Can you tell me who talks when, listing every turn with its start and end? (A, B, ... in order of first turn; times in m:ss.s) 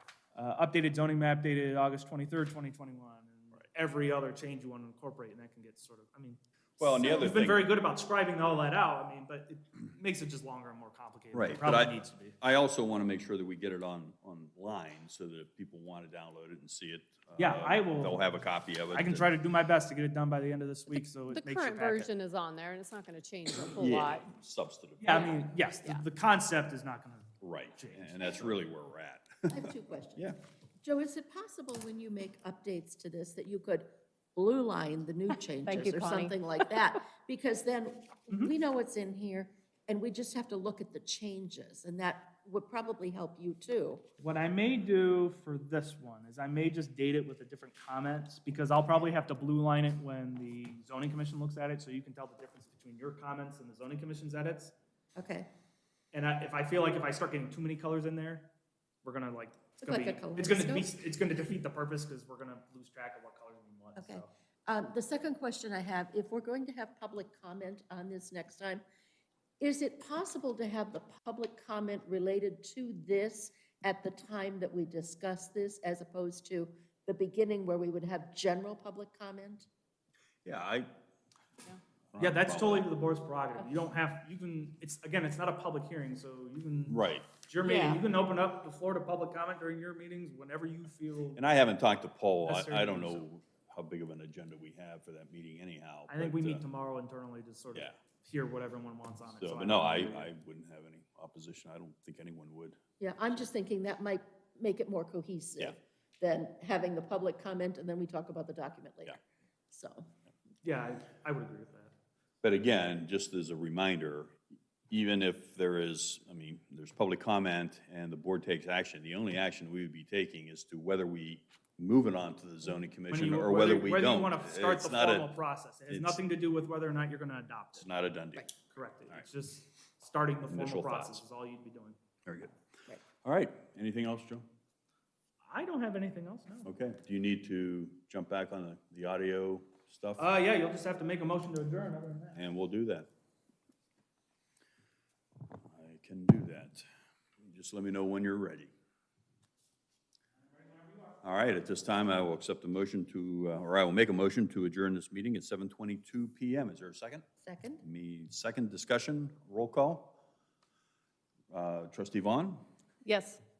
0:00.3-0:12.4 A
0:06.8-0:07.7 B
0:11.3-0:19.4 B
0:17.4-0:18.2 A
0:18.9-0:22.1 A
0:20.9-0:24.2 C
0:23.7-0:25.4 B
0:25.0-0:28.6 A
0:25.1-0:26.0 C
0:27.4-0:30.4 B
0:29.5-0:44.0 D
0:35.6-0:36.4 C
0:44.2-0:54.7 A
0:55.2-0:55.5 D
0:56.1-0:58.5 A
0:59.0-1:04.3 A
0:59.8-1:00.9 D
1:04.0-1:08.8 D
1:09.6-1:19.7 D
1:20.4-1:20.9 B
1:22.1-1:22.9 B
1:22.2-1:31.4 A
1:26.9-1:27.3 B
1:27.6-1:28.0 C
1:31.3-1:36.6 B
1:32.4-1:33.2 A
1:36.1-1:40.3 A
1:39.4-1:42.8 B
1:43.0-1:49.2 D
1:49.7-1:50.1 D
1:50.6-1:51.9 A
1:52.4-1:54.4 B
1:54.9-2:05.3 B
2:03.1-2:07.9 A
2:05.9-2:06.2 B
2:07.8-2:08.5 B
2:08.6-2:12.0 A
2:10.5-2:11.2 B
2:12.2-2:12.5 B
2:13.2-2:14.4 B
2:15.5-2:16.7 A
2:16.6-2:20.2 B
2:20.2-2:22.4 A
2:22.3-2:23.1 B
2:25.7-2:26.9 B
2:27.4-2:28.7 B
2:30.7-2:31.1 A
2:31.2-2:37.2 B
2:37.4-2:37.8 D
2:37.8-2:40.2 B
2:41.5-2:42.6 B
2:43.0-2:43.4 C